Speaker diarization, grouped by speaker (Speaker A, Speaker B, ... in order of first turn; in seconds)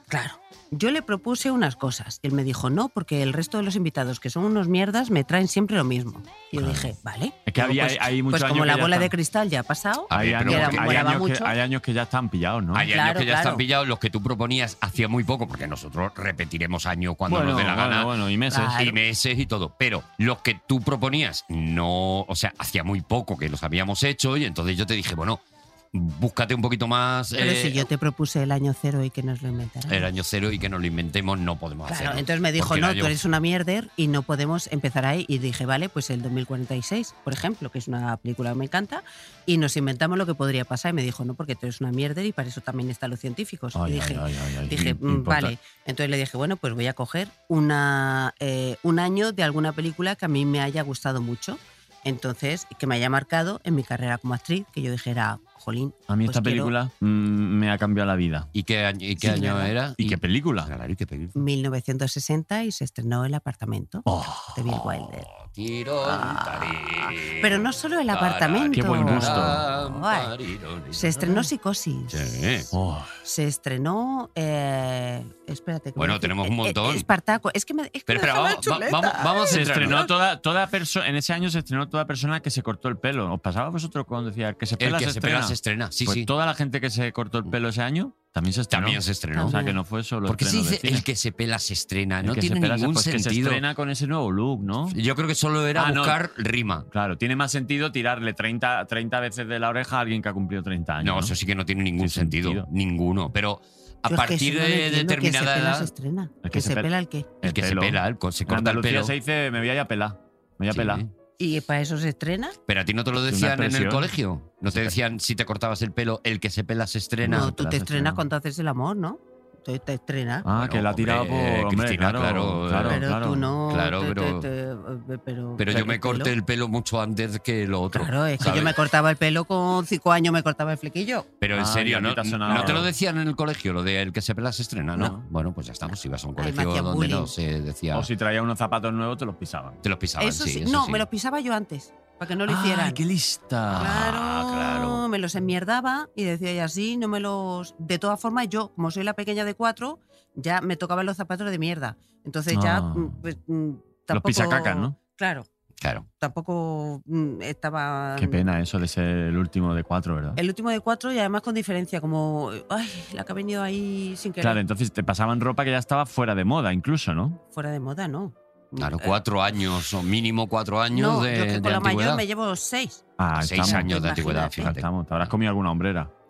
Speaker A: 0.1-11.5, 12.9-13.6, 18.5-19.0, 27.4-30.1, 31.9-56.7, 59.2-59.7, 61.4-65.3, 66.0-70.3, 70.9-72.4, 73.2-80.1, 89.3-89.8, 104.1-107.3, 111.4-112.6, 117.2-120.5, 122.9-126.3, 127.9-131.3, 136.4-137.3, 140.2-143.0, 143.7-155.5, 156.2-158.5, 160.4-164.6, 167.5-169.2, 170.9-173.0, 173.6-174.7
Speaker B: 6.5-6.9, 7.5-9.1, 10.1-12.9, 17.3-18.8, 43.8-45.5, 56.1-58.5, 60.0-60.7, 64.1-64.5, 68.7-69.6, 72.7-73.1, 79.5-91.1, 92.2-95.0, 95.8-96.2, 96.9-101.3, 102.0-102.7, 106.4-106.9, 107.4-111.0, 113.2-114.1, 117.2-118.2, 120.4-123.5, 131.6-132.9, 137.9-139.8, 142.5-144.0, 152.5-153.2, 154.1-155.0, 158.2-160.4, 164.4-167.4, 173.2-176.1
Speaker C: 10.1-11.1, 12.7-18.1, 18.7-25.4, 25.9-27.9, 29.9-33.2, 58.5-61.4, 65.0-71.5, 72.1-72.7, 76.0-77.1, 78.1-80.1, 84.8-86.3, 88.7-89.6, 90.2-93.6, 94.9-96.9, 101.0-105.9, 107.4-109.1, 110.7-111.1, 112.7-117.6, 120.5-123.0, 123.7-124.5, 125.6-128.8, 131.4-138.1, 139.8-141.1, 143.7-145.1, 155.8-156.1, 168.8-172.2, 173.4-174.9